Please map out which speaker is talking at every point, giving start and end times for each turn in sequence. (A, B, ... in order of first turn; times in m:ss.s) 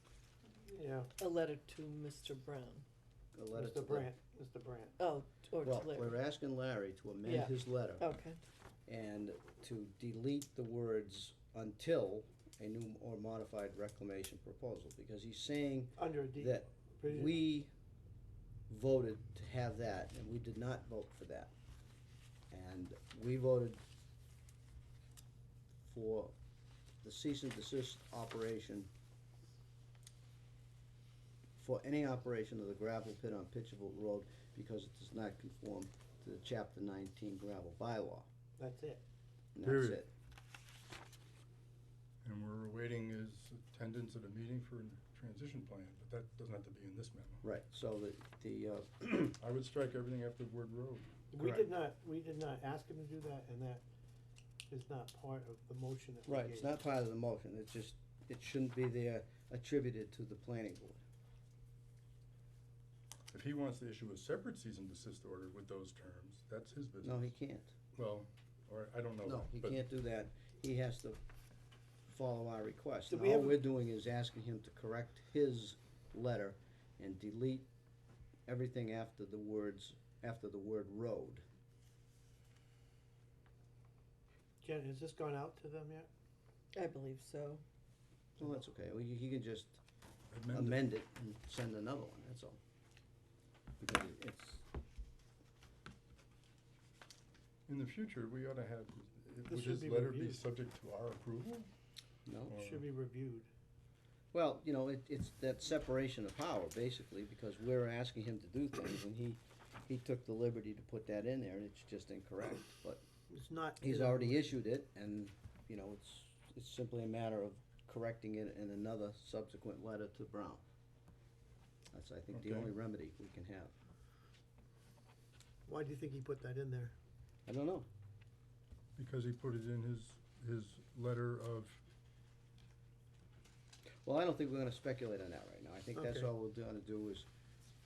0:00.6-0:01.1 A
0:01.2-0:02.8 B
0:03.3-0:04.1 C
0:03.5-0:05.0 A
0:05.0-0:06.2 B
0:05.6-0:08.0 C
0:07.2-0:08.4 B
0:08.9-0:17.7 C
0:16.0-0:17.4 A
0:18.7-0:21.5 C
0:22.5-0:23.8 C
0:25.8-0:26.3 C
0:27.0-0:28.9 C
0:31.6-0:38.3 C
0:38.6-0:39.0 A
0:39.5-0:40.1 C
0:39.6-0:40.0 D
0:42.2-0:47.4 D
0:47.4-0:49.4 C
0:49.4-0:51.2 D
0:51.3-0:53.8 A
0:54.7-0:56.7 A
0:56.3-1:01.0 C
1:03.3-1:07.3 D
1:07.0-1:07.7 C
1:07.9-1:09.8 D
1:09.2-1:11.2 C
1:12.1-1:17.7 C
1:13.1-1:13.6 A
1:18.5-1:21.4 C
1:24.6-1:26.1 A
1:26.7-1:27.6 B
1:28.4-1:29.8 C
1:30.3-1:30.8 D
1:30.5-1:32.6 C
1:33.8-1:34.6 C
1:37.7-1:41.7 D
1:39.5-1:40.4 A
1:42.2-1:42.6 C
1:42.5-1:42.8 D
1:42.5-1:43.5 A
1:44.3-1:53.0 C
1:53.3-1:54.5 A
1:53.8-2:00.6 C
2:01.9-2:03.7 C
2:02.3-2:02.7 D
2:05.6-2:06.9 A
2:07.5-2:07.9 C
2:09.0-2:11.8 D
2:14.0-2:17.3 C
2:16.0-2:16.3 A